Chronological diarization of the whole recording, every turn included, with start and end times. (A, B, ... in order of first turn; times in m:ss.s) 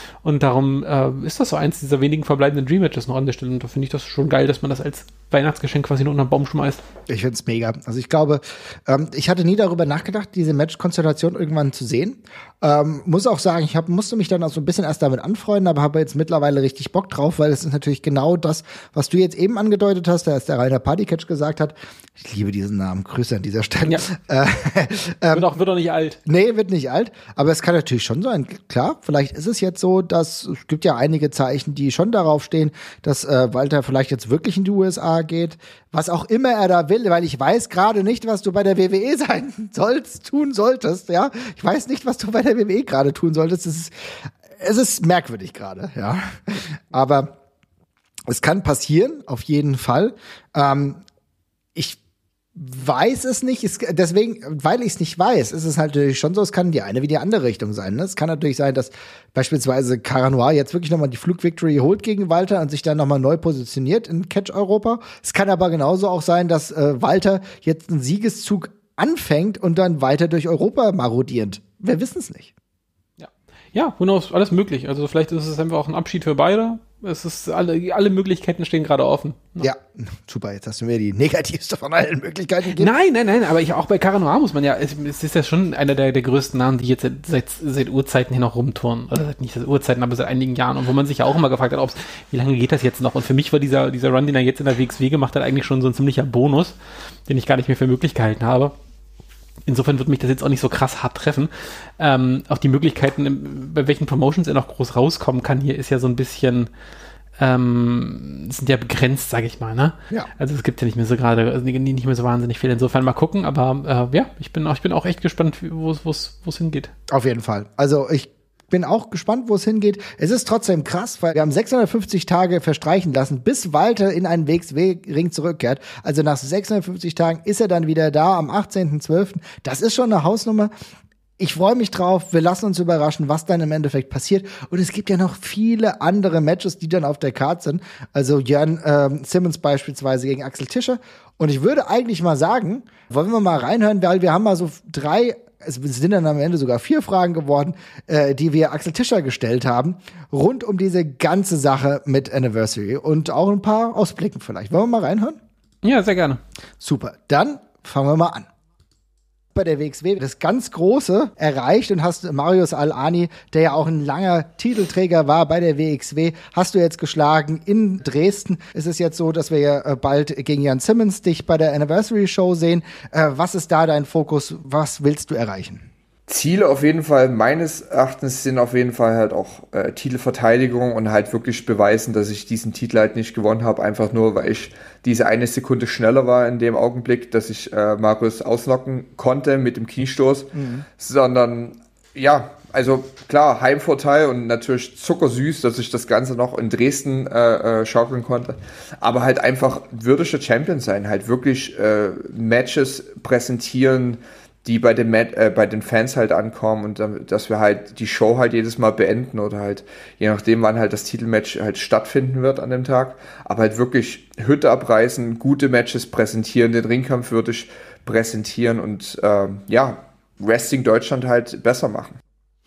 0:00.2-0:06.8 A
0:07.1-0:25.5 B
0:25.3-0:26.2 A
0:26.3-0:47.3 B
0:48.3-0:51.0 B
0:52.6-1:12.5 B
1:13.2-1:19.7 A
1:19.6-1:22.9 B
1:22.7-1:36.8 A
1:37.3-1:38.8 A
1:39.7-1:46.7 A
1:47.4-1:56.9 A
1:57.1-2:10.7 B
2:11.4-2:35.4 B
2:35.8-2:36.4 A
2:36.8-2:38.5 B
2:39.5-2:55.8 B
2:56.3-3:42.2 C
3:10.6-3:10.8 B